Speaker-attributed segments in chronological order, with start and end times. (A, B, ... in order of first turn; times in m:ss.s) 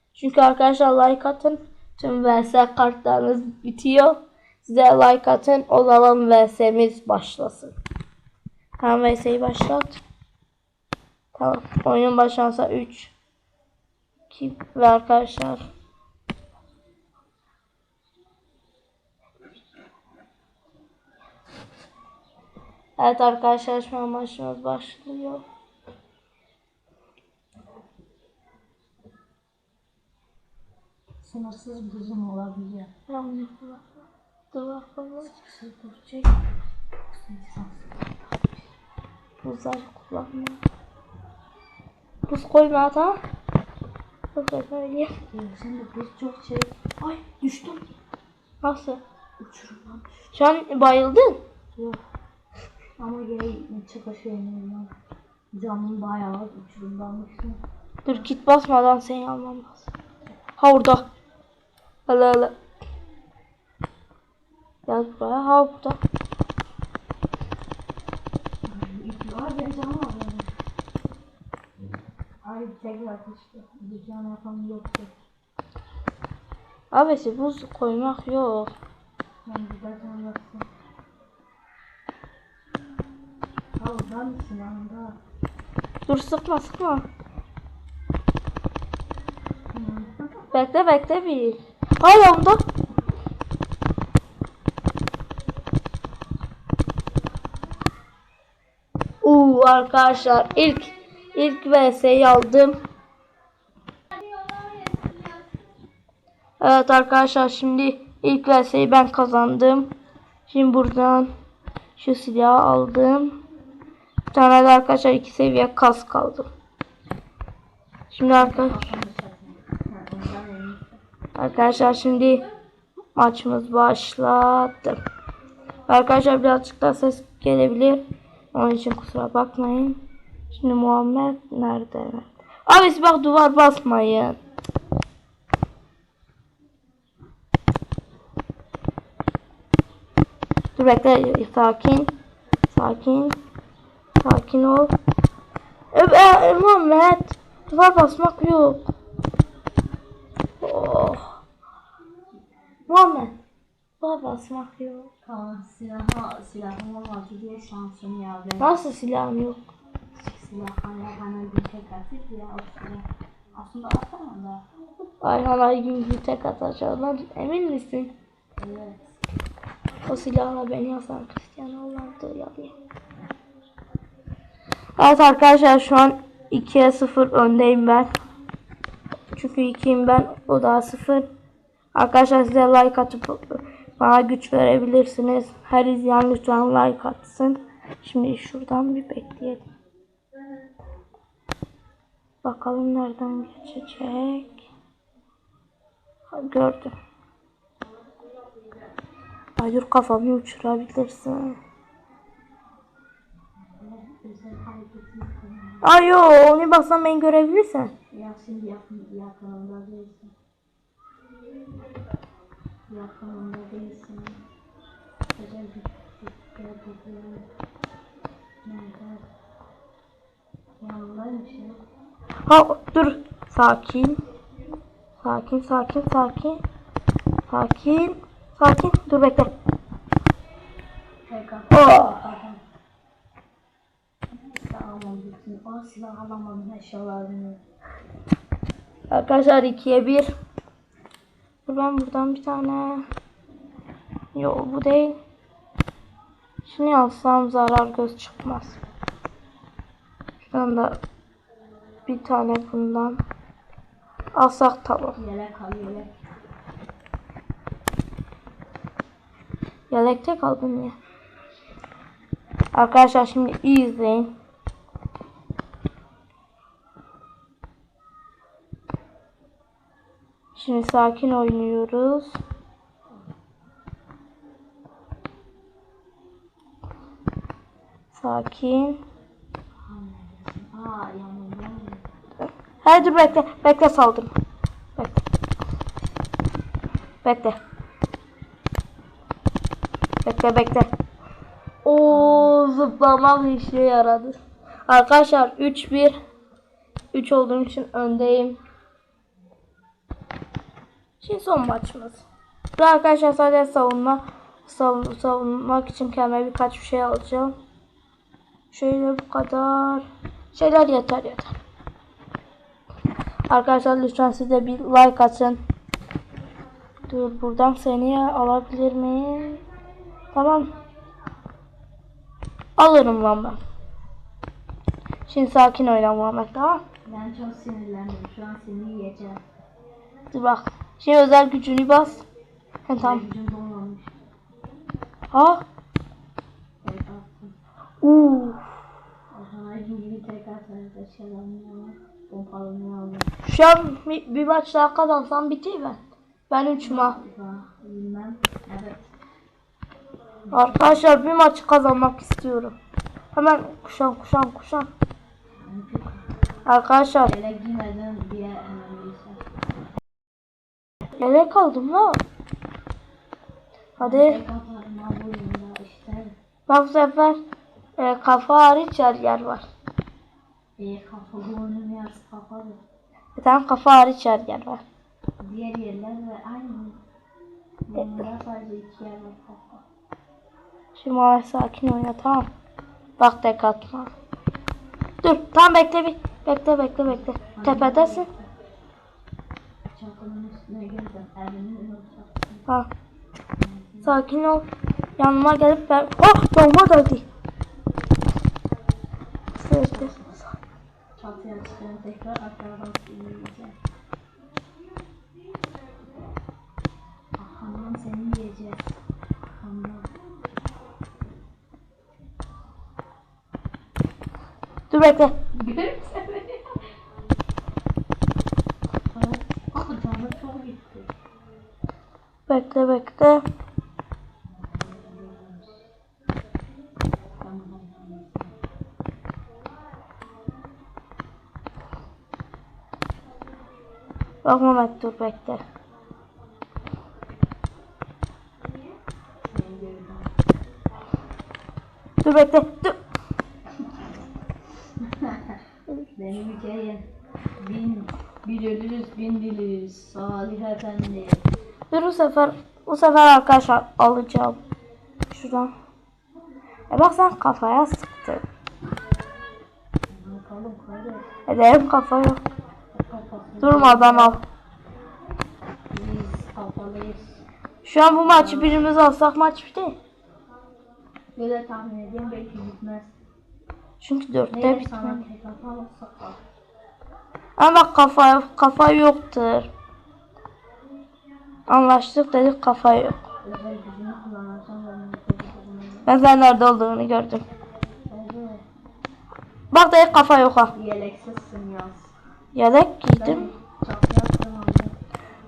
0:00.2-0:07.8 A
0:08.8-0:10.0 A
0:11.4-0:13.1 A
0:14.3-0:15.6 A
0:23.0-0:25.4 A
0:31.2-0:32.9 B
0:33.1-0:33.8 A
0:34.5-0:35.3 A
0:35.2-0:36.5 B
0:37.0-0:38.6 B
0:39.4-0:40.6 A
0:42.3-0:43.2 A
0:44.4-0:45.1 A
0:45.3-0:47.9 B
0:48.6-0:49.0 A
0:49.4-0:50.3 B
0:50.3-0:51.4 A
0:53.0-0:54.9 B
0:55.5-0:57.6 B
0:58.0-0:59.9 A
1:00.6-1:01.0 A
1:02.1-1:02.6 A
1:04.9-1:06.0 A
1:08.6-1:10.5 B
1:12.4-1:15.1 B
1:16.9-1:18.7 A
1:19.4-1:20.7 B
1:23.8-1:25.2 B
1:26.1-1:27.0 A
1:29.7-1:30.4 B
1:30.5-1:32.6 A
1:39.2-1:42.8 A
1:46.6-1:49.9 A
1:50.5-1:51.3 A
1:52.0-1:53.4 A
1:54.3-1:56.5 A
1:58.1-1:58.9 A
1:58.3-2:01.0 B
2:01.4-2:02.5 A
2:03.2-2:05.0 A
2:05.9-2:10.0 A
2:10.5-2:14.4 A
2:20.8-2:22.1 A
2:22.7-2:23.4 A
2:24.2-2:24.9 A
2:25.9-2:28.9 A
2:30.6-2:31.4 A
2:32.9-2:33.4 A
2:34.0-2:35.1 A
2:35.2-2:38.8 B
2:38.6-2:39.6 A
2:40.2-2:44.6 B
2:45.2-2:48.1 A
2:48.6-2:49.0 B
2:50.0-2:52.7 A
2:55.0-2:58.1 A
2:59.3-3:01.3 A
3:01.9-3:09.7 A
3:12.4-3:14.7 A
3:16.3-3:16.9 A
3:19.6-3:21.6 A
3:23.7-3:25.9 B
3:25.8-3:27.9 A
3:28.1-3:30.3 B
3:32.9-3:34.4 B
3:35.4-3:37.5 B
3:38.6-3:39.2 B
3:40.8-3:41.8 B
3:42.5-3:44.2 A
3:45.2-3:46.6 A
3:47.5-3:49.5 A
3:51.3-3:52.6 B
3:51.7-3:52.2 A
3:54.6-3:57.6 B
3:59.1-4:00.3 A
4:01.7-4:03.0 A
4:04.4-4:05.2 A
4:06.6-4:08.8 A
4:10.4-4:11.0 A
4:12.1-4:13.2 A
4:14.4-4:15.2 A
4:15.2-4:16.2 B
4:19.9-4:21.0 A
4:22.7-4:24.3 A
4:30.6-4:32.4 A
4:38.1-4:39.0 A
4:39.9-4:42.0 B
4:42.5-4:44.3 A
4:43.0-4:43.4 B
4:45.0-4:45.2 A
4:47.2-4:47.6 A
4:50.2-4:50.9 A
4:51.8-4:54.4 A
4:52.0-4:52.6 B
4:54.9-4:56.2 A
4:57.1-4:58.6 A
5:01.2-5:07.6 A
5:08.7-5:11.5 A
5:13.5-5:15.6 A
5:17.1-5:19.6 A
5:20.3-5:20.7 A
5:22.8-5:23.6 A
5:25.3-5:26.8 A
5:27.1-5:29.4 B
5:30.3-5:32.3 A
5:32.9-5:33.2 A
5:33.0-5:34.1 B
5:35.3-5:35.6 A
5:36.8-5:37.5 B
5:38.0-5:38.6 A
5:39.3-5:43.3 B
5:43.4-5:47.2 A
5:46.8-5:49.1 B
5:50.5-5:51.1 B
5:50.5-5:52.8 A
5:53.4-5:54.9 A
5:55.6-5:56.2 B
5:56.7-5:57.3 A
5:57.2-5:59.4 B
6:01.2-6:02.2 A
6:04.0-6:04.4 A
6:04.0-6:06.4 B
6:06.7-6:07.4 A
6:08.0-6:09.7 A
6:10.8-6:12.8 B
6:13.4-6:14.8 A
6:15.4-6:17.0 B
6:17.9-6:19.8 B
6:21.0-6:22.5 A
6:23.2-6:24.1 A
6:25.2-6:28.3 A
6:27.1-6:28.4 B
6:29.9-6:32.7 B
6:33.6-6:34.2 B
6:34.0-6:34.7 A
6:35.2-6:37.2 A
6:39.6-6:40.2 A
6:39.8-6:40.4 B
6:41.2-6:43.8 B
6:47.4-6:49.0 B
6:49.6-6:50.1 B
6:54.9-6:55.3 A
6:55.5-6:56.7 B
6:59.1-7:01.1 B
7:02.5-7:03.4 A
7:04.6-7:05.8 B
7:07.4-7:08.5 B
7:14.4-7:15.6 A
7:19.5-7:20.3 B
7:22.2-7:23.0 A
7:25.0-7:25.6 B
7:26.2-7:27.0 B
7:27.6-7:31.4 B
7:31.9-7:34.6 A
7:35.3-7:35.7 A
7:36.9-7:38.4 A
7:40.1-7:41.3 B
7:41.5-7:42.4 A
7:42.9-7:44.4 B
7:43.6-7:44.4 A
7:45.9-7:47.4 B
7:47.8-7:50.0 A
7:48.1-7:48.8 B
7:51.4-7:53.2 B
7:54.0-7:55.2 A
7:54.5-7:56.4 B
7:57.6-7:59.7 A
8:01.7-8:03.2 A
8:03.4-8:06.1 B
8:06.1-8:07.4 A
8:08.1-8:08.6 B
8:09.7-8:10.7 A
8:10.7-8:12.1 B
8:12.6-8:13.5 A
8:13.2-8:15.0 B